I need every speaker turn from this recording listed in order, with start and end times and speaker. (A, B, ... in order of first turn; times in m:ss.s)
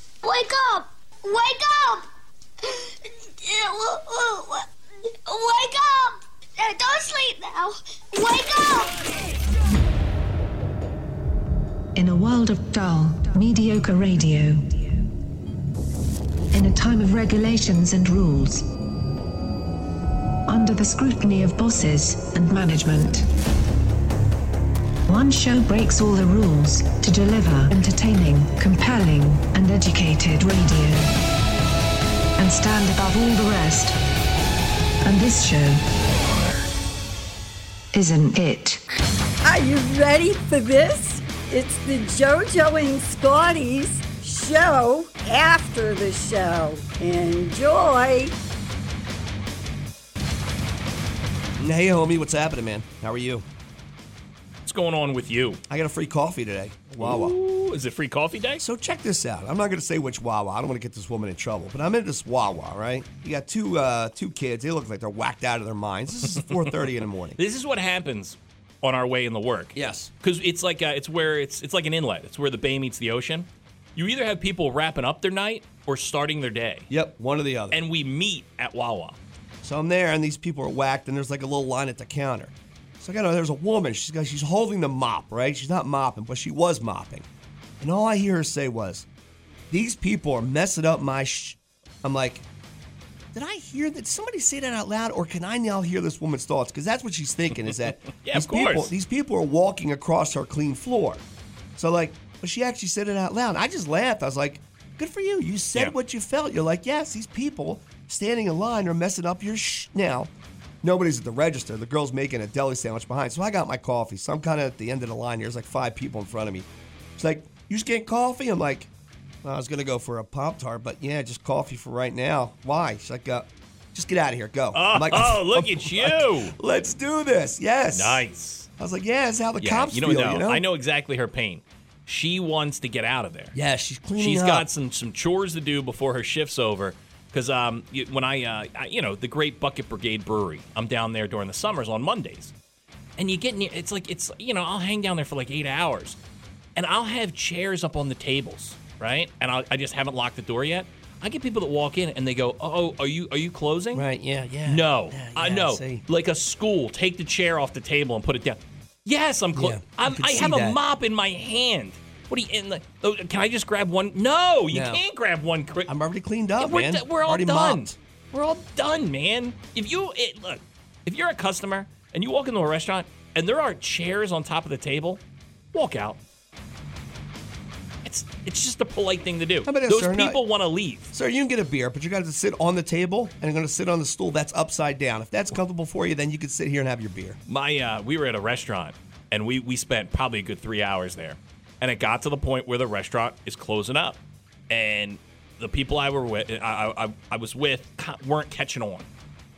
0:00.2-0:02.1 A
0:02.7-0:04.7 A
0:05.3-0:09.1 A
0:12.0-0:15.1 B
0:16.5-0:18.7 B
0:20.5-0:23.3 B
0:25.1-0:31.1 B
0:32.4-0:34.0 B
0:35.0-0:35.8 B
0:37.9-0:38.8 B
0:39.4-0:48.4 C
0:51.6-0:53.5 D
0:54.6-0:55.6 E
0:55.7-0:57.4 D
0:57.0-0:58.6 E
0:58.6-1:07.4 D
1:06.3-1:06.8 E
1:07.4-1:16.9 E
1:09.8-1:10.1 D
1:16.9-1:17.8 D
1:17.7-1:19.2 E
1:19.6-1:27.3 D
1:27.8-1:29.1 D
1:29.7-1:32.4 D
1:33.3-1:41.2 D
1:38.2-1:38.9 E
1:41.8-1:50.3 D
1:50.8-1:58.9 D
1:59.4-2:08.2 D
2:04.7-2:06.6 E
2:07.9-2:08.7 E
2:08.8-2:10.6 D
2:09.6-2:13.6 E
2:13.5-2:14.7 D
2:14.2-2:22.5 E
2:23.2-2:26.2 E
2:26.8-2:34.1 E
2:33.9-2:36.0 D
2:34.6-2:45.9 E
2:39.6-2:40.8 D
2:44.7-2:45.0 D
2:45.9-2:48.0 D
2:46.6-2:55.2 E
2:55.7-2:56.2 E
2:58.0-3:01.1 E
2:59.6-3:00.4 D
3:01.1-3:07.4 D
3:07.5-3:19.1 E